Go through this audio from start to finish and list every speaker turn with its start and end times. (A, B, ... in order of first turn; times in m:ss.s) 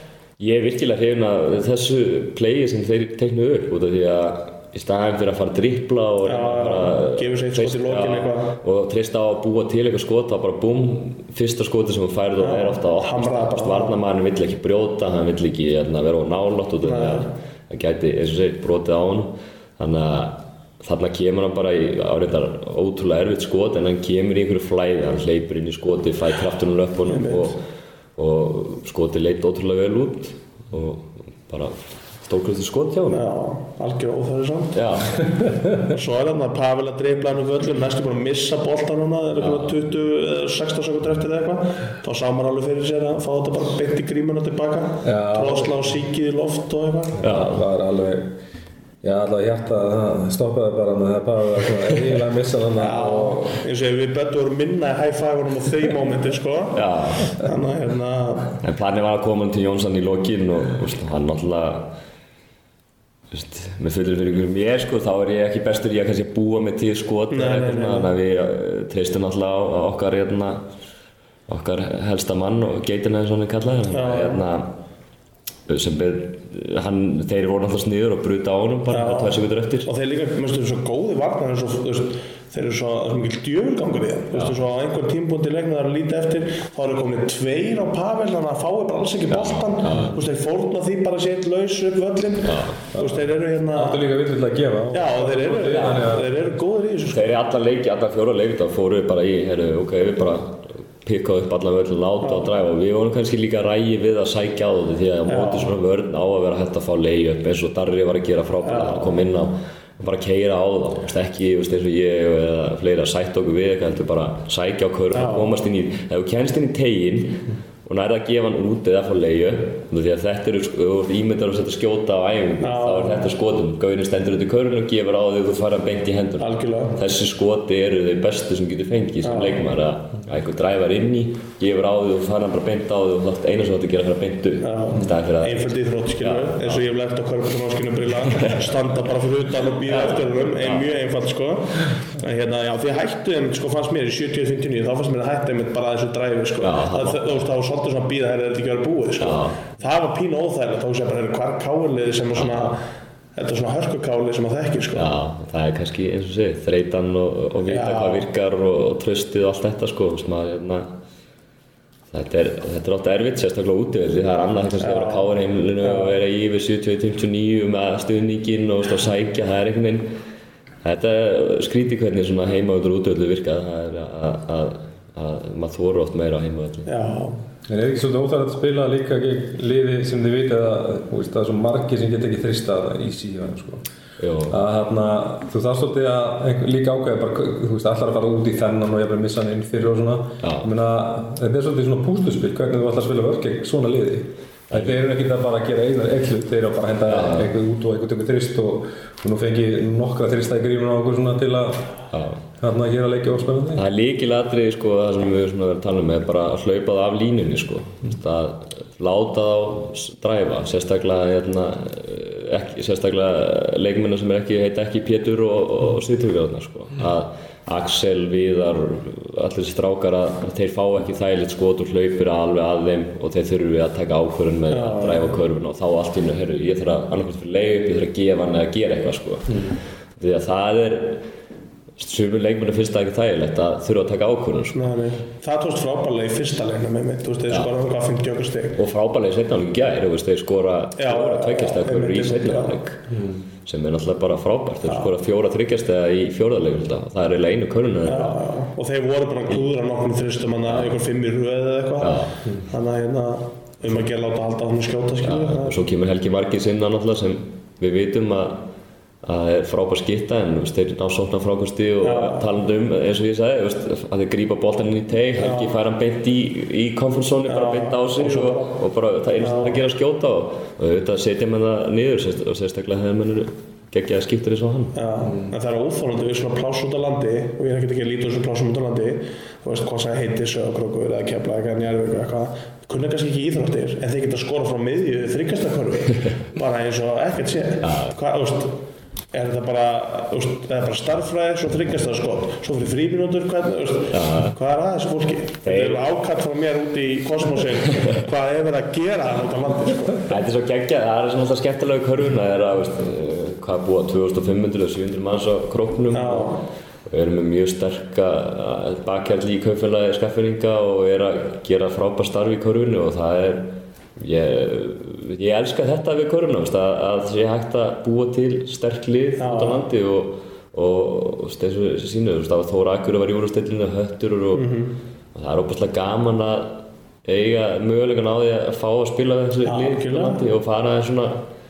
0:00.4-0:27.6 A
0:06.2-0:08.6 B
0:12.4-0:14.0 B
0:16.8-0:17.3 B
0:27.1-0:27.5 B
0:28.2-0:33.2 A
0:33.1-0:34.7 B
0:34.7-0:35.3 A
0:35.8-0:47.2 B
0:39.4-0:39.8 A
0:45.0-0:45.9 C
0:47.2-0:47.6 A
0:47.2-0:48.4 C
0:49.0-0:53.5 C
0:52.8-0:58.6 B
0:56.7-0:57.4 A
0:58.6-1:01.9 A
1:03.3-1:10.7 A
1:07.3-1:08.1 B
1:11.5-1:14.7 A
1:13.9-1:14.4 B
1:15.7-1:19.9 A
1:18.9-1:34.0 B
1:29.3-1:30.2 A
1:32.4-1:32.8 A
1:33.0-1:33.2 C
1:33.7-1:36.4 C
1:34.9-1:37.3 B
1:37.1-2:15.7 A
1:45.3-1:45.7 B
1:48.6-1:49.2 B
1:55.1-1:55.5 B
2:02.6-2:03.3 B
2:06.4-2:07.0 B
2:09.2-2:09.6 B
2:14.6-2:32.8 B
2:16.2-2:16.8 A
2:18.3-2:18.7 A
2:19.9-2:20.9 A
2:26.6-2:27.4 A
2:29.2-2:29.6 A
2:33.4-2:35.1 B
2:35.0-2:40.9 A
2:37.7-2:38.3 B
2:42.1-2:50.1 A
2:44.8-2:45.3 B
2:45.8-2:46.2 B
2:50.8-2:56.9 A
2:56.9-2:57.4 B
2:57.7-3:03.8 C
3:04.2-3:04.6 A
3:04.5-3:21.9 C
3:10.4-3:10.7 A
3:17.1-3:17.5 A
3:22.1-3:22.4 A
3:22.6-3:23.8 C
3:23.8-3:51.2 A
3:44.7-3:45.4 B
3:49.5-3:49.8 C
3:52.0-3:54.8 A
3:54.7-3:58.8 B
3:58.8-4:03.0 A
4:01.0-4:02.8 B
4:03.1-4:03.4 C
4:03.6-4:08.4 A
4:04.9-4:05.1 B
4:08.1-4:15.8 B
4:10.6-4:11.0 A
4:12.0-4:12.4 A
4:15.2-4:18.7 A
4:19.2-4:35.0 A
4:22.0-4:22.5 B
4:25.4-4:25.8 B
4:27.5-4:28.8 B
4:29.4-4:29.8 B
4:35.0-4:48.8 B
4:35.2-4:35.5 C
4:47.8-4:48.2 A
4:49.3-5:00.3 B
4:54.1-4:54.6 A
4:55.6-4:56.0 A
5:00.2-5:06.6 A
5:06.1-5:06.6 B
5:07.1-5:24.7 A
5:19.4-5:19.8 B
5:24.5-5:25.0 B
5:25.3-5:31.5 A
5:29.6-5:30.4 B